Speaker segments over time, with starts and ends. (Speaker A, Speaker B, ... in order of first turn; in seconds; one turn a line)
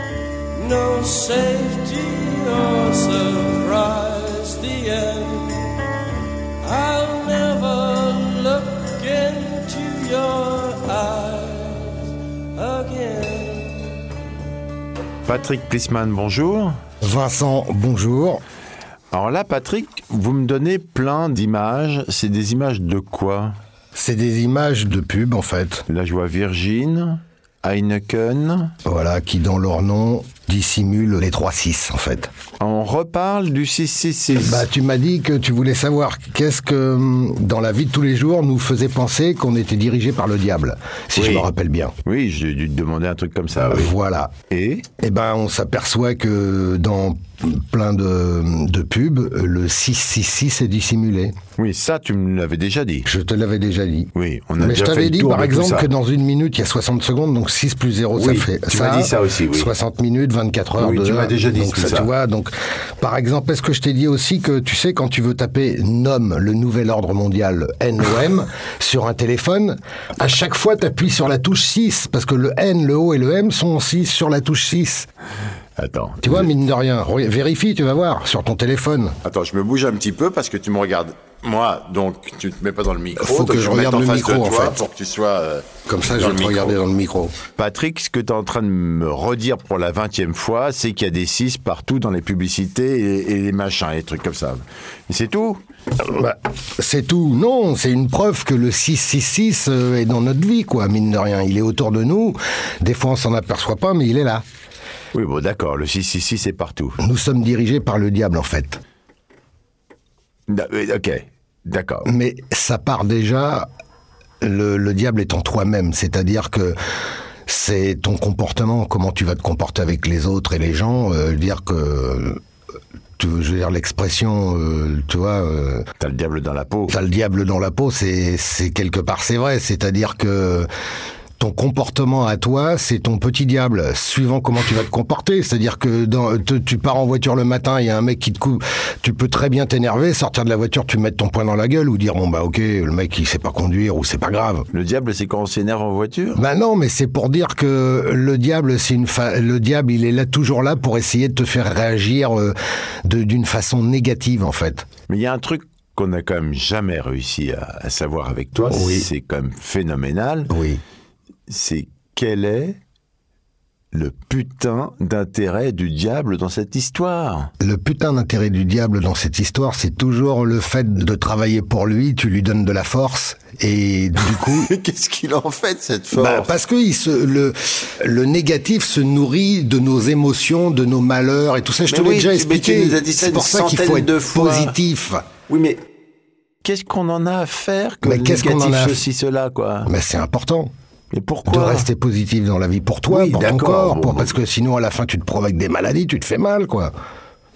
Speaker A: 0.5-5.8
Speaker A: 6.6-14.0
Speaker B: 15.2-16.8
Speaker C: 17.0-18.4
Speaker B: 19.1-23.6
Speaker C: 23.9-25.9
Speaker B: 25.9-28.7
Speaker C: 28.8-32.3
Speaker B: 32.6-34.7
Speaker C: 34.4-41.9
Speaker B: 41.1-41.5
Speaker B: 42.0-43.9
Speaker C: 43.6-44.3
Speaker B: 44.5-44.9
Speaker C: 45.0-51.4
Speaker B: 51.6-53.1
Speaker C: 53.0-75.1
Speaker B: 54.1-55.9
Speaker B: 58.1-59.7
Speaker B: 60.8-62.1
Speaker B: 75.8-76.5
Speaker C: 76.2-79.2
Speaker B: 79.2-86.8
Speaker C: 83.2-84.8
Speaker C: 85.9-87.3
Speaker B: 87.6-95.6
Speaker C: 96.0-104.4
Speaker B: 105.1-107.0
Speaker C: 107.0-108.8
Speaker B: 110.5-112.1
Speaker C: 112.0-113.7
Speaker C: 114.4-116.8
Speaker C: 117.5-122.4
Speaker C: 123.2-125.9
Speaker B: 126.0-127.0
Speaker C: 126.9-130.7
Speaker C: 131.4-144.7
Speaker B: 144.7-146.4
Speaker C: 146.3-154.9
Speaker B: 155.1-160.5
Speaker C: 158.7-159.1
Speaker C: 160.5-160.8
Speaker B: 161.5-162.8
Speaker B: 163.9-167.5
Speaker C: 167.6-174.7
Speaker B: 174.2-176.5
Speaker C: 176.1-185.2
Speaker B: 181.9-184.7
Speaker B: 185.5-185.8
Speaker B: 186.6-189.9
Speaker C: 188.0-189.0
Speaker C: 189.8-190.7
Speaker B: 191.1-191.9
Speaker C: 191.5-196.9
Speaker B: 193.1-194.3